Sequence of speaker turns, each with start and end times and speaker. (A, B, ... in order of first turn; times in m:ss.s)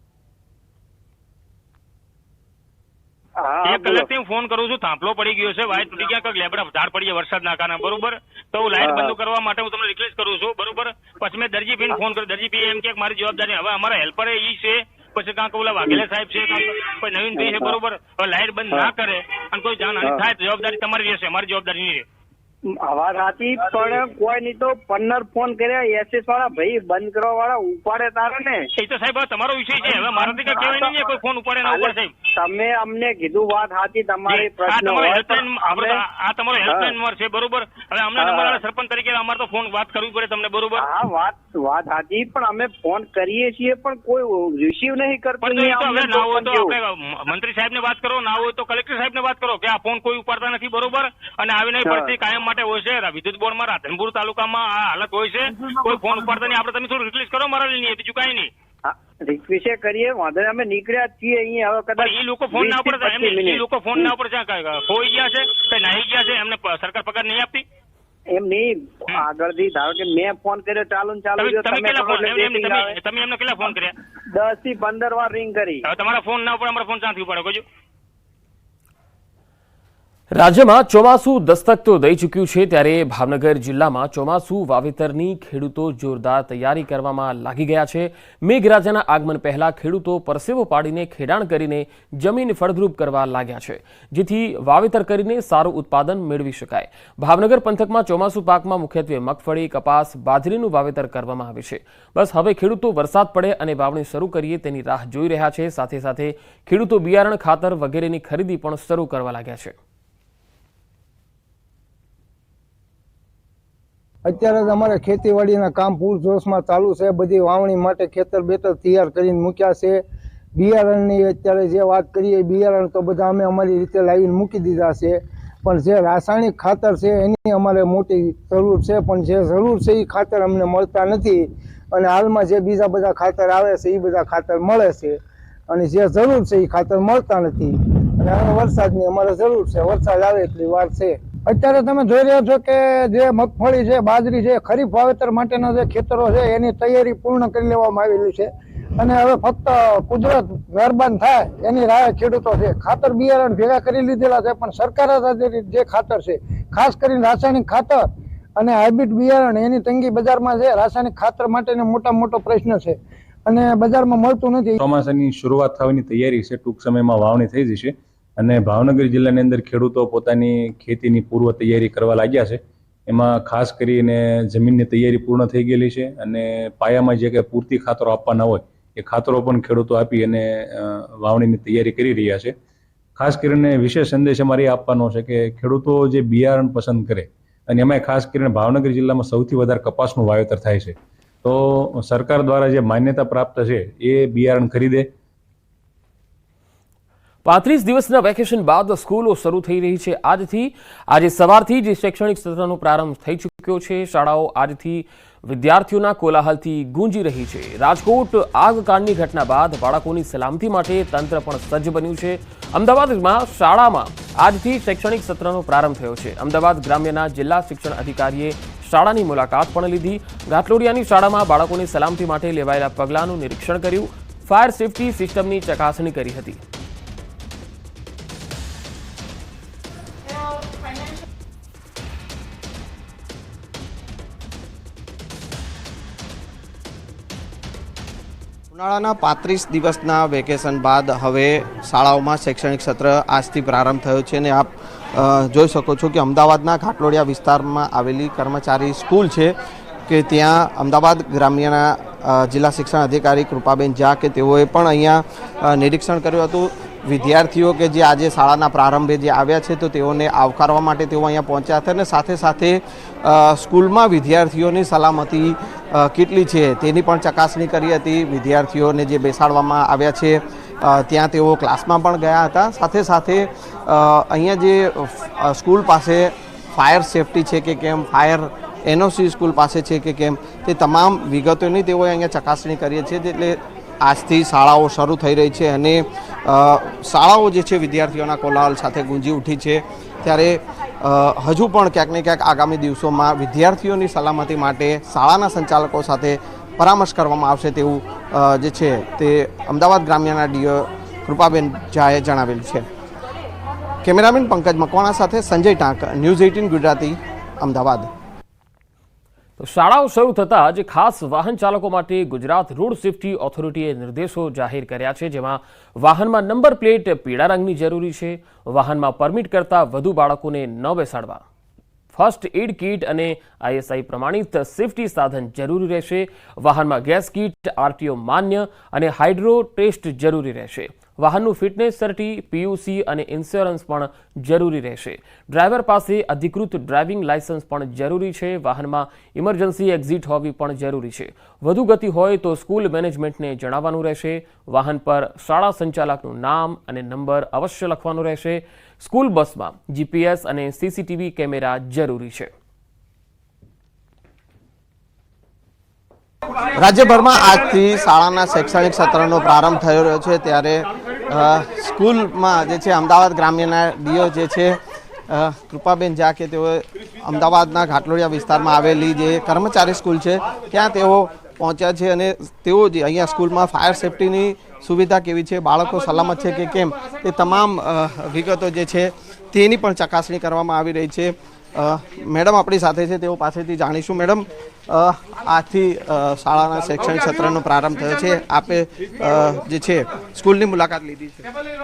0:03.4-0:04.1 A
0:03.6-0:22.0 B
0:08.8-0:09.1 A
0:17.4-0:17.8 A
0:22.8-0:28.7 A
0:28.7-0:32.1 B
0:29.8-0:36.0 A
0:34.3-0:40.9 B
0:36.6-0:36.9 A
0:38.2-0:38.6 A
0:40.8-0:46.7 A
0:45.4-0:58.5 B
0:51.8-0:52.1 A
0:55.7-0:56.3 A
0:58.8-1:04.1 A
1:02.0-1:07.6 B
1:08.3-1:13.0 A
1:11.4-1:13.9 B
1:14.3-1:15.8 A
1:15.8-1:17.6 B
1:20.3-1:49.7 C
1:54.2-2:00.0 D
2:00.5-2:15.2 D
2:15.7-2:38.0 D
2:38.6-2:44.8 D
2:44.8-3:02.5 E
3:03.2-3:15.1 E
3:17.4-3:46.6 C
3:58.7-4:09.5 F
4:10.1-5:02.8 F
5:04.0-5:08.1 F
5:09.6-5:21.4 C
5:22.1-5:52.5 C
5:56.7-6:04.8 F
6:05.3-6:31.4 F